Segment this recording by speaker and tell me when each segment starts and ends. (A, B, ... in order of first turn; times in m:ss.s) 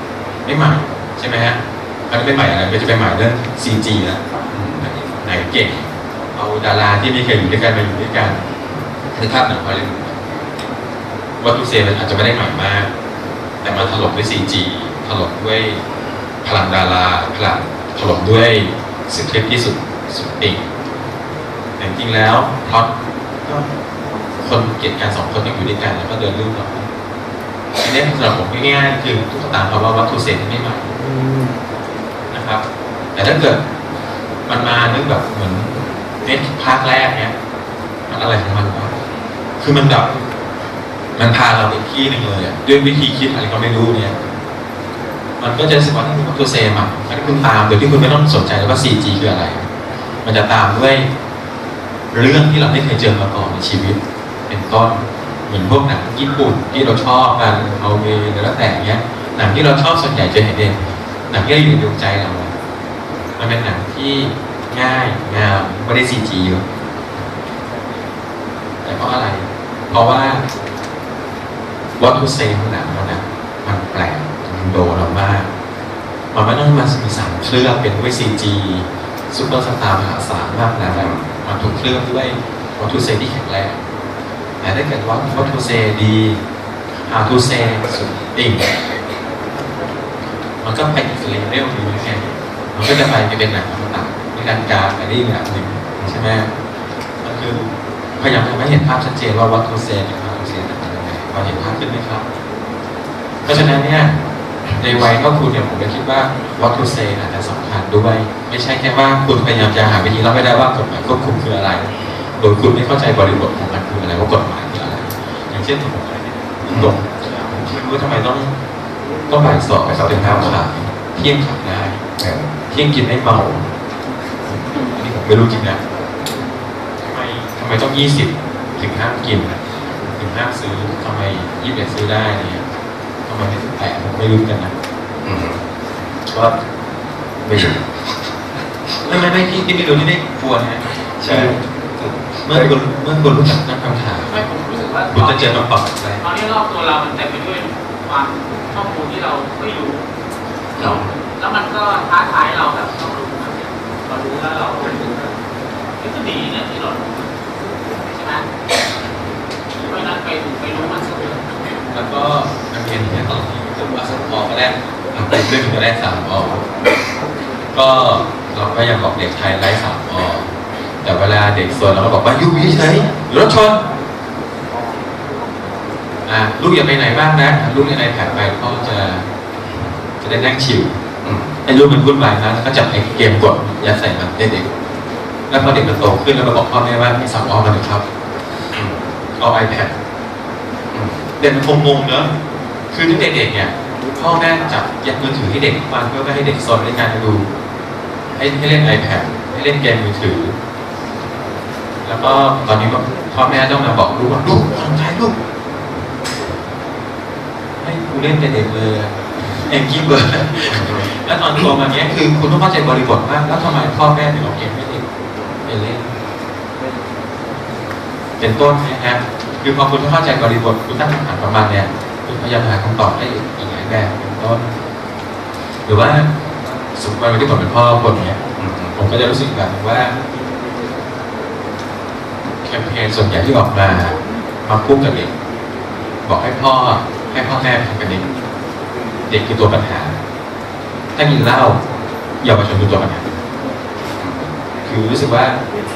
0:00.4-0:01.6 A
0:02.1-0:04.2 A
0:04.5-0:04.8 B
0:04.8-0:08.4 A
0:09.1-0:10.2 A
0:11.4-0:12.9 A
0:13.6-0:15.8 A
0:16.4-0:20.6 A
0:21.8-0:22.9 A
0:24.4-0:26.9 A
0:27.8-0:30.9 A
0:32.3-0:32.6 A
0:33.1-0:33.6 A
0:34.5-0:37.3 A
0:38.1-0:38.9 A
0:39.6-0:40.1 A
0:41.2-0:44.1 A
0:45.4-0:49.6 A
0:50.2-0:51.1 A
0:52.1-0:54.0 A
0:54.5-1:00.8 A
1:01.3-1:02.5 A
1:03.4-1:06.6 A
1:08.8-1:10.4 A
1:12.0-1:15.5 A
1:16.3-1:23.8 A
1:20.9-1:21.2 B
1:24.6-1:26.4 A
1:27.1-1:28.7 A
1:30.6-1:36.5 A
1:37.2-1:37.7 A
1:38.2-1:42.2 A
1:43.4-1:44.1 A
1:44.8-1:51.9 A
1:52.4-1:58.5 A
1:56.7-1:56.9 B
1:59.3-2:02.0 A
1:59.4-2:00.6 B
2:02.2-2:02.5 B
2:02.7-2:03.6 A
2:04.9-2:05.8 A
2:07.0-2:09.5 A
2:10.0-2:12.6 A
2:13.3-2:14.7 A
2:15.2-2:15.6 B
2:17.4-2:17.8 B
2:19.0-2:21.6 A
2:21.2-2:21.5 B
2:22.0-2:22.7 B
2:22.4-2:24.3 A
2:24.2-2:25.6 C
2:25.1-2:26.2 A
2:26.2-2:30.0 C
2:30.7-2:35.2 C
2:30.8-2:31.1 B
2:36.0-2:37.2 C
2:38.0-2:38.4 C
2:39.8-2:41.4 C
2:41.9-2:46.6 A
2:47.7-2:50.5 A
2:51.0-2:53.8 A
2:56.2-2:59.2 A
3:00.2-3:00.9 A
3:01.2-3:01.5 B
3:01.6-3:04.7 A
3:05.5-3:08.0 A
3:08.7-3:09.0 B
3:09.4-3:09.9 A
3:10.9-3:11.2 B
3:11.4-3:12.3 A
3:12.9-3:17.4 A
3:18.4-3:20.6 A
3:22.0-3:25.3 A
3:27.8-3:35.0 A
3:30.7-3:31.7 B
3:35.6-3:36.1 A
3:38.4-3:44.7 A
3:45.8-3:46.3 A
3:47.0-3:48.4 A
3:48.6-3:48.9 B
3:48.9-3:50.1 A
3:52.6-3:55.3 A
3:56.2-3:58.2 A
3:59.3-4:00.1 A
4:01.2-4:01.8 A
4:02.4-4:03.2 A
4:04.2-4:04.5 B
4:04.8-4:05.6 A